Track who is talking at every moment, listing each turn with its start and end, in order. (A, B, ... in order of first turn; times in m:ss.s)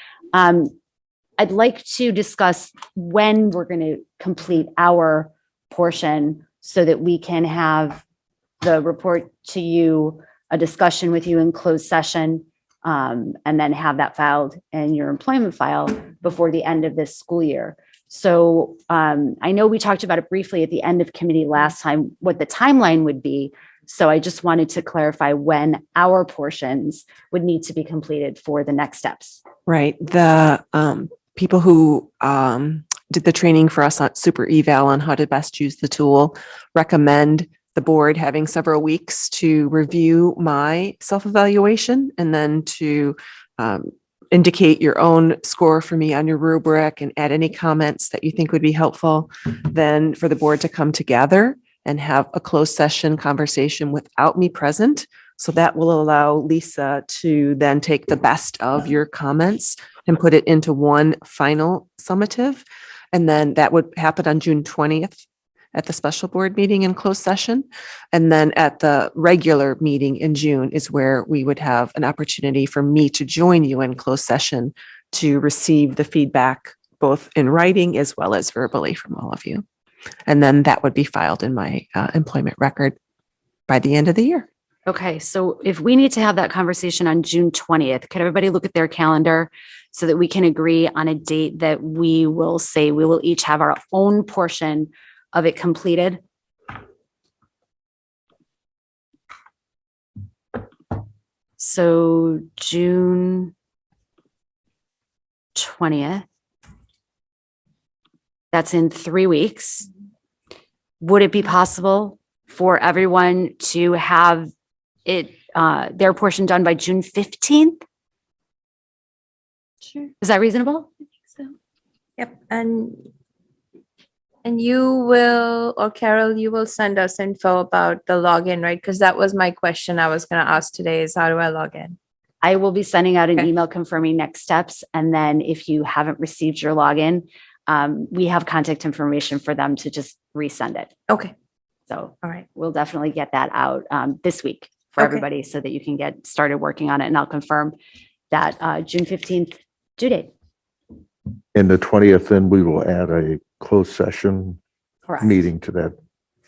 0:00.3-0:00.7 A
0:01.4-0:08.0 A
0:08.6-0:29.4 A
0:29.7-1:05.2 B
1:05.7-1:19.6 B
1:20.3-1:23.0 B
1:23.7-1:24.5 B
1:24.8-1:36.2 A
1:41.6-1:43.5 A
1:45.5-1:46.2 A
1:48.5-1:49.9 A
1:51.0-1:54.5 A
1:55.0-1:57.8 A
2:00.2-2:01.5 A
2:02.2-2:03.0 C
2:04.4-2:12.0 C
2:12.4-2:20.9 A
2:21.1-2:21.3 C
2:21.9-2:27.8 A
2:25.0-2:25.2 C
2:28.3-2:30.3 A
2:31.5-2:34.6 D
2:35.1-2:35.4 A
2:35.2-2:35.9 D